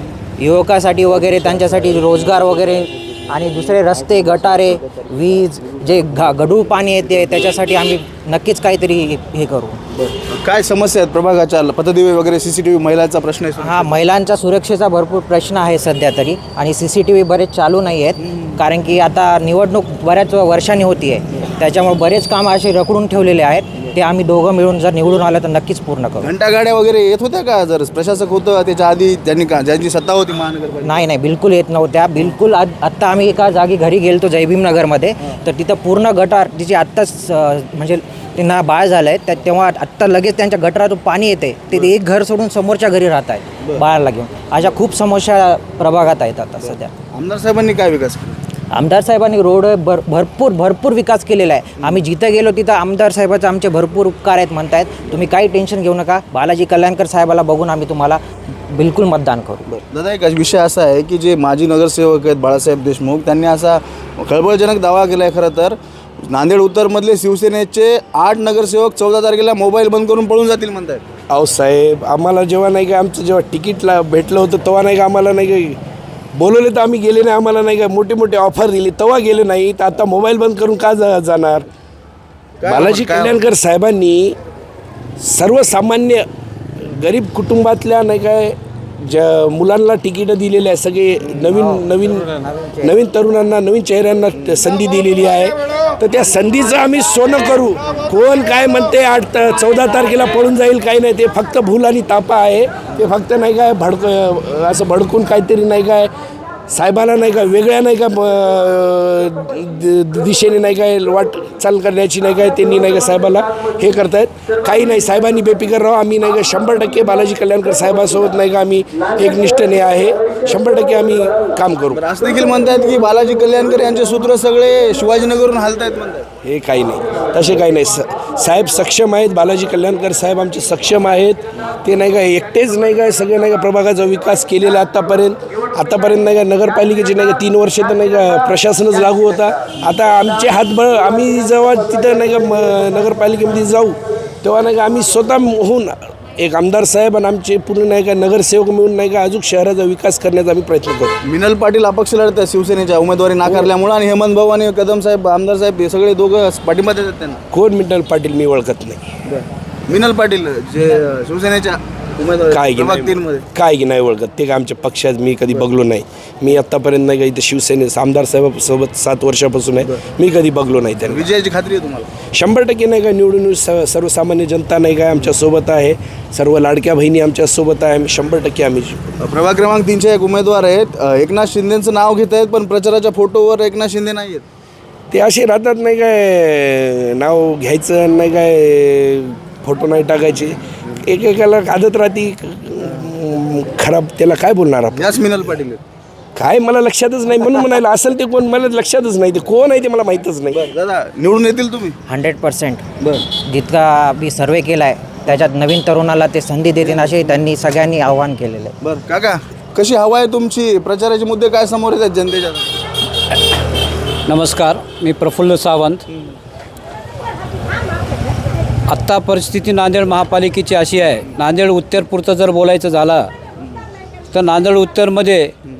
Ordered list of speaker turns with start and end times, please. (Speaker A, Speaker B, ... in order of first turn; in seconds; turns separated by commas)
Speaker A: 0.4-9.8, Speaker B: 9.9-14.0, Speaker A: 13.6-26.3, Speaker B: 26.2-31.0, Speaker A: 30.8-46.9, Speaker B: 47.1-48.4, Speaker A: 48.7-59.7, Speaker B: 59.7-71.0, Speaker C: 71.3-75.8, Speaker C: 76.3-81.7, Speaker B: 82.6-83.4, Speaker C: 82.6-84.4, Speaker C: 85.2-86.3, Speaker C: 86.8-106.1, Speaker C: 106.7-122.0, Speaker B: 121.9-126.3, Speaker C: 126.4-151.2, Speaker B: 151.2-157.4, Speaker C: 157.5-159.1, Speaker B: 159.3-163.4, Speaker C: 162.5-171.3, Speaker B: 171.0-172.1, Speaker C: 172.3-179.2, Speaker B: 179.2-184.4, Speaker C: 185.1-195.1, Speaker B: 194.9-195.8, Speaker C: 196.4-200.6, Speaker B: 200.5-202.0, Speaker A: 202.1-202.8, Speaker B: 203.0-203.3, Speaker A: 203.4-208.8, Speaker B: 206.9-207.3, Speaker B: 208.8-212.8, Speaker D: 214.3-216.0, Speaker D: 218.9-223.3, Speaker D: 224.3-225.5